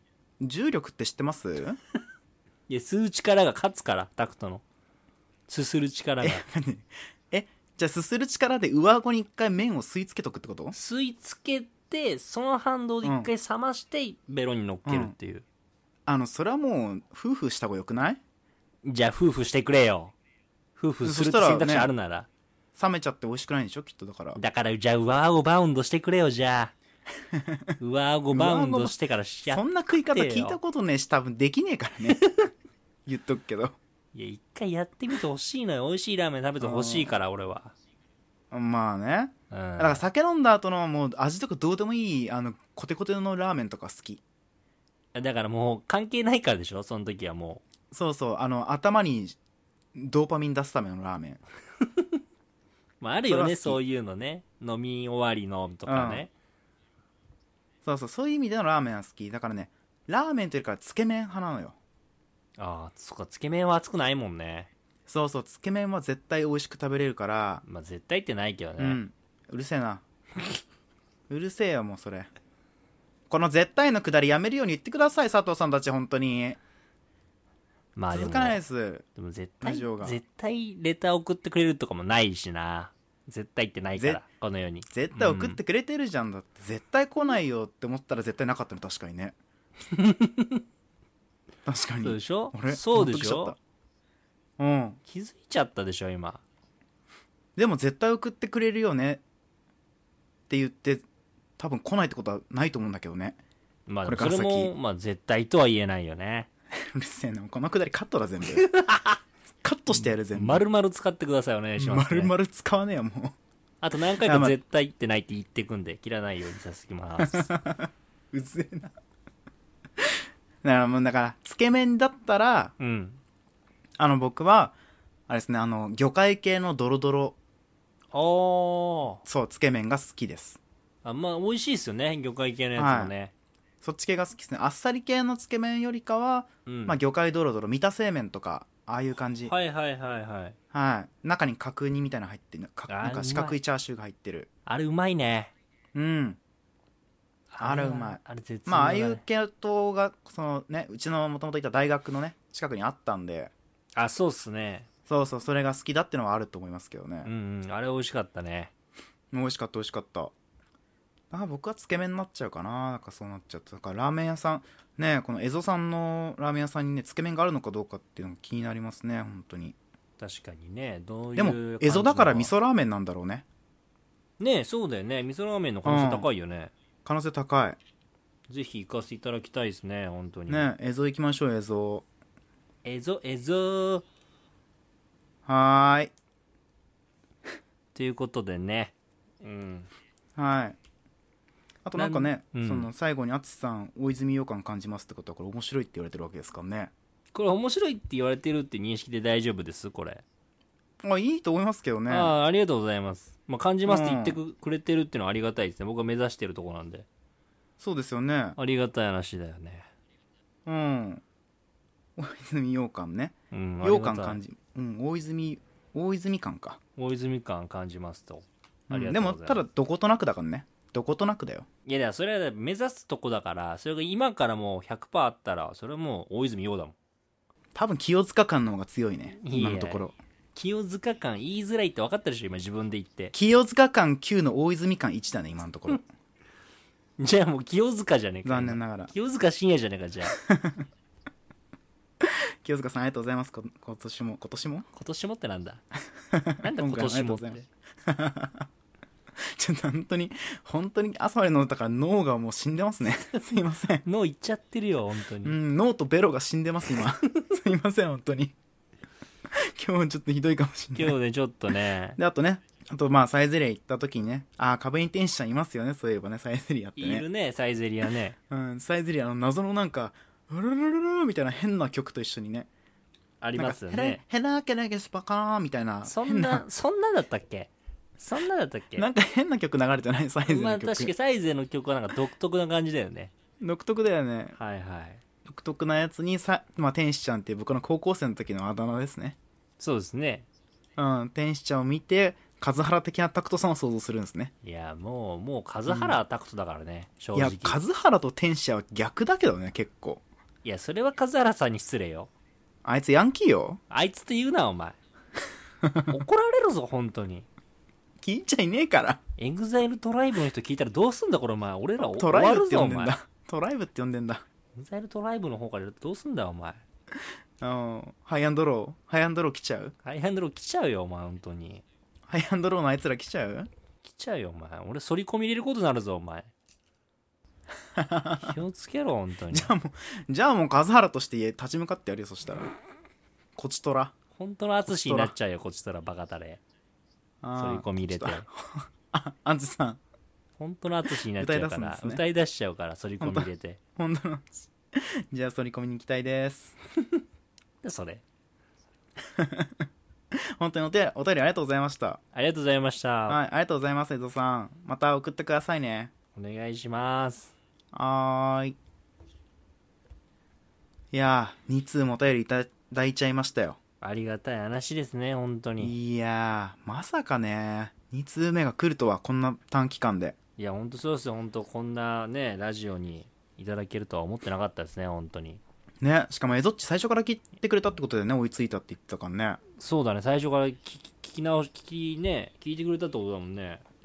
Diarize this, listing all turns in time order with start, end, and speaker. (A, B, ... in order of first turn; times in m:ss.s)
0:00.4-0:01.8 A
0:02.7-0:04.6 B
0:05.5-0:06.4 B
0:06.2-0:10.8 A
0:10.7-0:15.4 B
0:13.0-0:13.3 A
0:14.8-0:15.1 A
0:16.1-0:18.2 A
0:18.8-0:20.2 B
0:20.8-0:22.3 B
0:21.0-0:21.9 A
0:22.8-0:24.4 A
0:24.4-0:26.7 B
0:27.3-0:27.8 A
0:27.8-0:30.6 B
0:28.3-0:29.0 A
0:29.5-0:32.2 A
0:32.2-0:32.5 B
0:33.1-0:33.8 A
0:34.1-0:37.7 B
0:36.6-0:37.1 A
0:38.5-0:44.2 A
0:39.5-0:40.1 B
0:45.1-0:47.6 B
0:47.9-0:49.4 A
0:50.0-0:51.4 A
0:51.8-0:52.2 B
0:53.0-0:56.3 B
0:53.3-0:53.8 A
0:55.9-0:56.3 A
0:57.8-1:01.8 A
1:02.6-1:04.7 B
1:05.1-1:07.6 A
1:07.6-1:09.0 B
1:08.8-1:10.0 A
1:11.3-1:12.3 A
1:13.3-1:16.6 A
1:18.0-1:18.6 B
1:18.1-1:19.1 A
1:19.2-1:25.6 B
1:19.6-1:20.2 A
1:24.0-1:24.2 A
1:24.9-1:29.4 A
1:29.9-1:30.6 B
1:31.7-1:33.6 A
1:32.0-1:33.6 B
1:34.6-1:35.0 A
1:35.1-1:36.4 B
1:37.6-1:39.2 A
1:40.5-1:41.0 A
1:41.6-1:43.4 A
1:43.9-1:46.5 B
1:44.1-1:44.7 A
1:46.8-1:48.7 A
1:48.5-1:49.2 B
1:49.6-1:50.6 A
1:49.9-1:52.3 B
1:51.8-1:53.4 A
1:53.8-1:57.5 B
1:54.2-1:54.6 A
1:57.2-1:59.0 A
2:00.0-2:02.7 A
2:02.8-2:03.2 B
2:04.0-2:04.7 A
2:05.3-2:07.4 A
2:08.1-2:09.2 B
2:09.3-2:10.6 A
2:11.0-2:13.3 B
2:12.8-2:13.1 A
2:13.8-2:19.5 A
2:16.7-2:17.0 B
2:19.5-2:20.6 B
2:20.7-2:24.5 A
2:22.9-2:23.6 B
2:24.7-2:25.5 B
2:25.9-2:26.4 A
2:27.5-2:29.2 B
2:27.6-2:33.5 A
2:34.0-2:34.9 B
2:35.1-2:37.3 A
2:37.2-2:38.7 B
2:39.3-2:40.3 A
2:41.3-2:49.8 A
2:50.2-2:52.5 B
2:51.4-2:53.4 A
2:54.4-2:56.7 B
2:55.8-2:56.3 A
2:57.0-2:57.8 A
2:58.5-3:00.7 B
3:00.5-3:02.1 A
3:02.8-3:04.0 B
3:05.5-3:06.1 A
3:08.0-3:09.9 B
3:10.4-3:10.8 A
3:11.8-3:16.9 A
3:12.0-3:12.9 B
3:17.3-3:20.2 B
3:21.0-3:22.3 A
3:22.1-3:27.1 B
3:23.9-3:24.4 A
3:27.8-3:28.6 A
3:28.6-3:29.9 B
3:30.7-3:31.2 A
3:32.2-3:36.8 A
3:33.5-3:34.4 B
3:37.0-3:39.6 B
3:38.9-3:41.7 A
3:41.9-3:47.0 B
3:47.8-3:50.2 A
3:49.4-3:53.3 B
3:53.3-3:56.0 A
3:57.2-4:00.4 B
3:58.4-3:59.1 A
4:00.4-4:00.9 A
4:02.2-4:04.9 A
4:04.9-4:05.8 B
4:06.3-4:08.7 A
4:06.6-4:07.7 B
4:09.5-4:14.0 A
4:14.0-4:15.6 B
4:15.4-4:18.6 A
4:19.5-4:21.2 A
4:21.0-4:22.2 B
4:22.2-4:27.3 A
4:27.0-4:28.4 B
4:28.5-4:32.7 A
4:33.4-4:34.2 B
4:33.6-4:36.6 A
4:36.0-4:39.1 B
4:39.0-4:41.1 A
4:40.5-4:43.3 B
4:43.6-4:44.6 A
4:44.6-4:45.2 B
4:45.4-4:49.4 A
4:49.8-4:50.5 B
4:51.0-4:54.5 A
4:54.6-4:57.8 B
4:55.9-4:56.2 A
4:57.4-5:00.2 A
5:00.6-5:02.3 B
5:02.8-5:03.8 A
5:03.9-5:05.0 B
5:05.8-5:06.2 A
5:06.1-5:07.5 B
5:08.2-5:09.2 A
5:09.4-5:13.2 B
5:12.0-5:14.4 A
5:14.8-5:16.8 B
5:17.6-5:19.9 A
5:20.0-5:21.8 B
5:22.3-5:23.7 A
5:24.0-5:26.5 B
5:28.0-5:28.6 A
5:28.4-5:29.7 B
5:29.5-5:32.7 A
5:33.6-5:34.1 A
5:34.4-5:36.6 B
5:34.9-5:35.3 A
5:37.4-5:40.0 A
5:37.6-5:38.5 B
5:40.6-5:43.8 B
5:41.4-5:42.2 A
5:43.2-5:46.8 A
5:47.8-5:48.2 B
5:49.4-5:52.2 A
5:52.3-5:53.4 B
5:53.3-5:56.1 A
5:56.4-5:57.5 B
5:57.9-5:58.8 A
6:01.1-6:03.8 A
6:04.0-6:06.0 B
6:05.8-6:10.4 A
6:10.6-6:15.6 B
6:16.0-6:19.6 A
6:19.8-6:23.8 B